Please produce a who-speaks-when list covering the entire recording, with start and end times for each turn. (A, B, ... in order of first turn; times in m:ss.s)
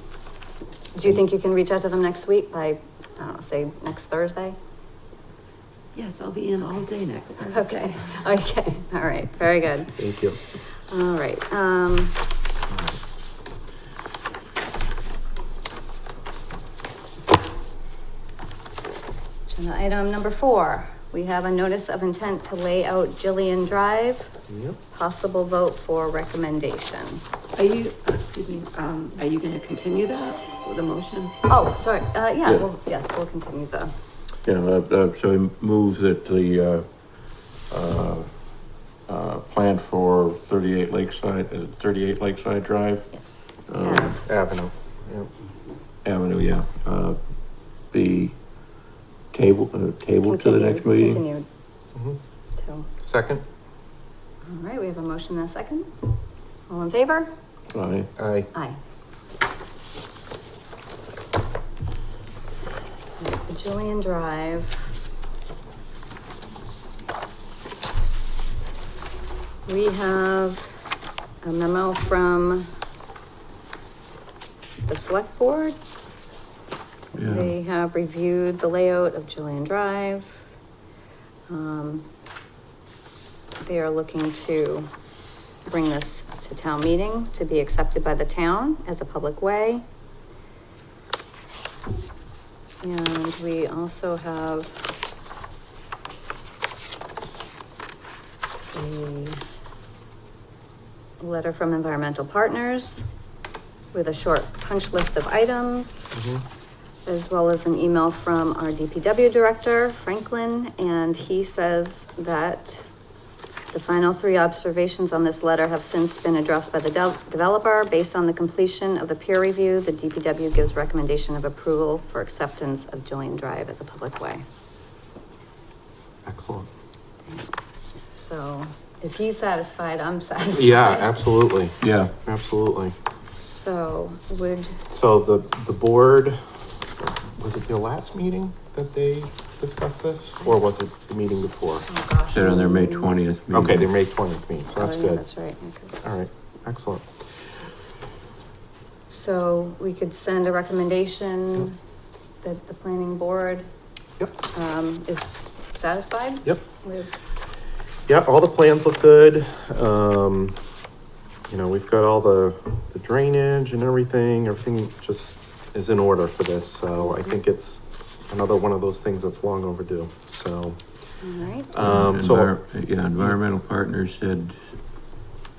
0:00.9-0:04.6 A
0:05.9-0:08.2 B
0:07.4-0:10.1 A
0:10.0-0:10.4 C
0:10.9-0:12.2 A
0:12.7-0:13.0 C
0:19.5-0:24.3 A
0:24.5-0:24.8 C
0:24.9-0:27.2 A
0:27.5-0:31.3 B
0:31.5-0:33.9 A
0:34.4-0:38.3 D
0:39.1-0:43.1 D
0:43.7-0:44.2 D
0:43.8-0:44.2 A
0:44.2-0:45.3 C
0:46.0-0:47.2 D
0:47.9-0:48.4 D
0:49.3-0:51.2 D
0:50.2-0:51.5 A
0:52.6-0:52.9 A
0:53.0-0:53.4 C
0:54.4-0:55.9 A
0:56.7-0:57.3 A
0:57.7-0:58.1 D
0:58.2-0:58.5 C
0:58.5-0:58.8 A
1:03.2-1:04.9 A
1:09.7-1:10.7 A
1:11.4-1:12.7 A
1:14.8-1:15.8 A
1:17.2-1:17.5 D
1:17.2-1:20.4 A
1:21.5-1:22.1 A
1:23.6-1:24.9 A
1:25.6-1:29.8 A
1:32.7-1:34.8 A
1:38.7-1:39.4 A
1:41.2-1:43.0 A
1:43.9-1:46.1 A
1:46.1-1:46.4 C
1:47.0-1:52.9 A
1:53.7-2:04.4 A
2:06.2-2:06.7 C
2:08.1-2:11.2 A
2:10.5-2:13.0 C
2:11.8-2:12.1 D
2:13.3-2:14.8 A
2:14.9-2:16.4 C
2:17.4-2:21.9 C
2:21.9-2:23.1 A
2:22.3-2:23.9 D
2:23.5-2:25.2 C
2:24.8-2:26.0 A
2:26.0-2:27.0 C
2:29.1-2:31.8 A
2:32.4-2:33.7 A
2:34.5-2:37.1 A
2:38.1-2:40.6 C
2:41.5-2:50.8 C
2:51.2-2:52.0 A
2:51.7-2:52.5 C
2:51.8-2:54.6 D